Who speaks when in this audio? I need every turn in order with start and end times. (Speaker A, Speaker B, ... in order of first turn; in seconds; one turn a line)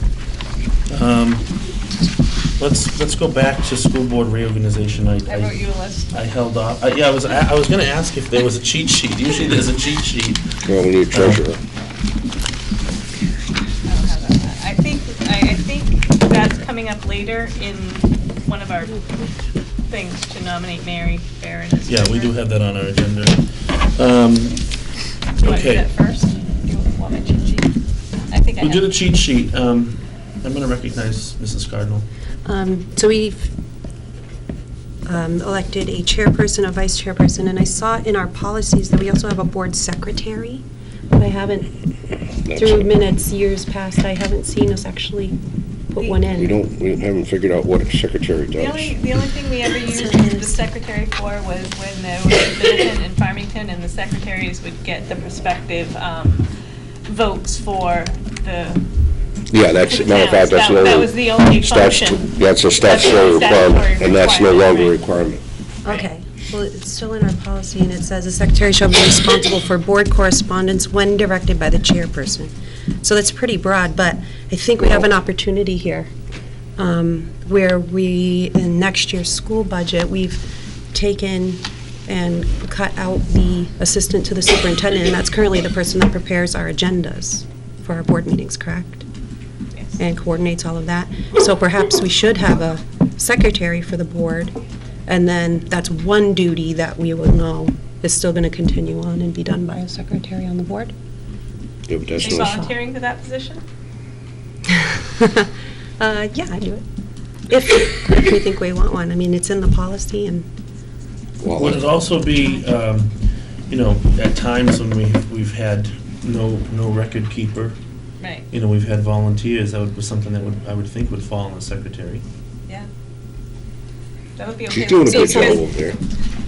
Speaker A: 0.9-1.5
Speaker A: 2.6-5.6
Speaker B: 5.3-6.1
Speaker A: 6.1-10.4
Speaker C: 10.6-11.6
Speaker A: 11.1-11.4
Speaker B: 13.9-19.1
Speaker B: 19.9-22.4
Speaker A: 21.9-24.6
Speaker B: 25.4-27.7
Speaker A: 25.4-25.9
Speaker B: 28.3-29.0
Speaker A: 28.6-32.0
Speaker D: 32.5-33.5
Speaker D: 35.1-41.7
Speaker C: 42.5-42.9
Speaker D: 42.5-45.4
Speaker D: 45.9-46.6
Speaker C: 46.3-49.0
Speaker B: 48.6-56.5
Speaker D: 49.9-50.6
Speaker B: 57.1-58.9
Speaker C: 59.5-65.4
Speaker B: 59.8-65.0
Speaker D: 65.8-76.1
Speaker D: 76.8-89.0
Speaker D: 90.0-94.6
Speaker D: 95.1-100.9
Speaker C: 101.9-102.6
Speaker B: 102.2-103.6
Speaker D: 102.4-102.7
Speaker D: 105.0-105.5
Speaker D: 106.0-106.8
Speaker D: 107.5-110.5
Speaker C: 111.4-111.9
Speaker A: 111.5-113.1
Speaker A: 113.7-117.8
Speaker B: 118.2-118.5
Speaker A: 118.5-122.2
Speaker B: 124.4-125.7
Speaker C: 124.7-126.0
Speaker D: 125.1-125.6